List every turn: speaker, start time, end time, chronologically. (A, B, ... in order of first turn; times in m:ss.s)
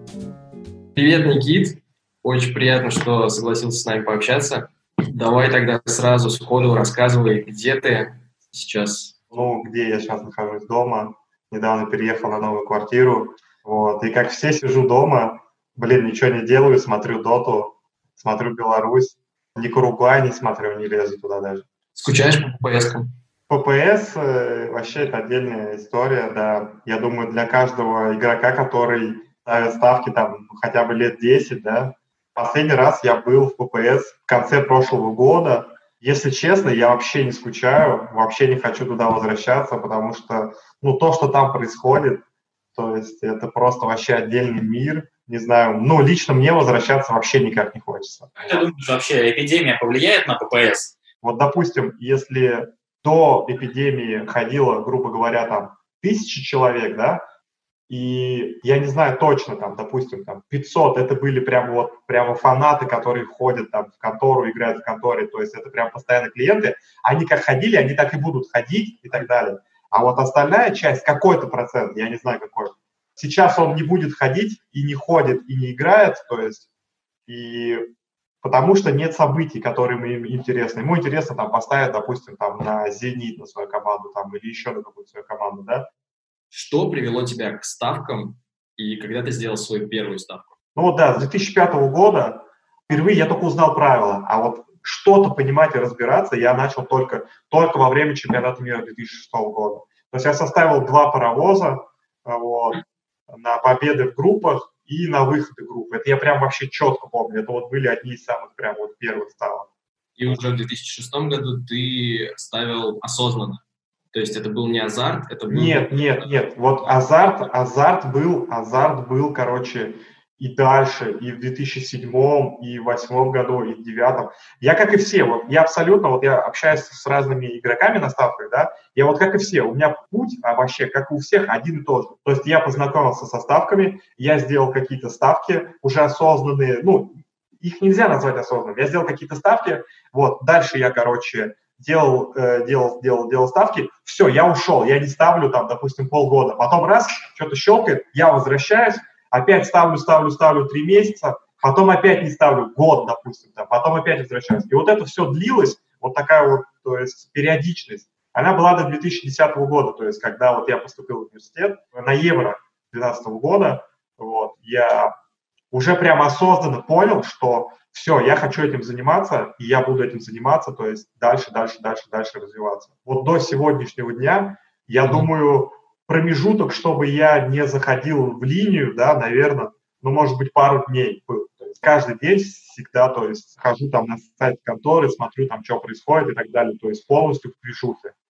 0:01.0-0:09.2 A
0:09.3-0:21.6 B
0:22.0-0:23.1 A
0:23.5-0:48.3 B
0:48.4-0:51.0 C
0:51.2-0:57.2 B
0:57.9-1:16.7 B
1:17.3-1:17.8 B
1:18.4-1:25.9 B
1:26.5-1:30.5 A
1:30.8-1:49.7 B
1:50.2-1:56.3 A
1:55.5-2:45.1 B
2:45.7-3:08.1 B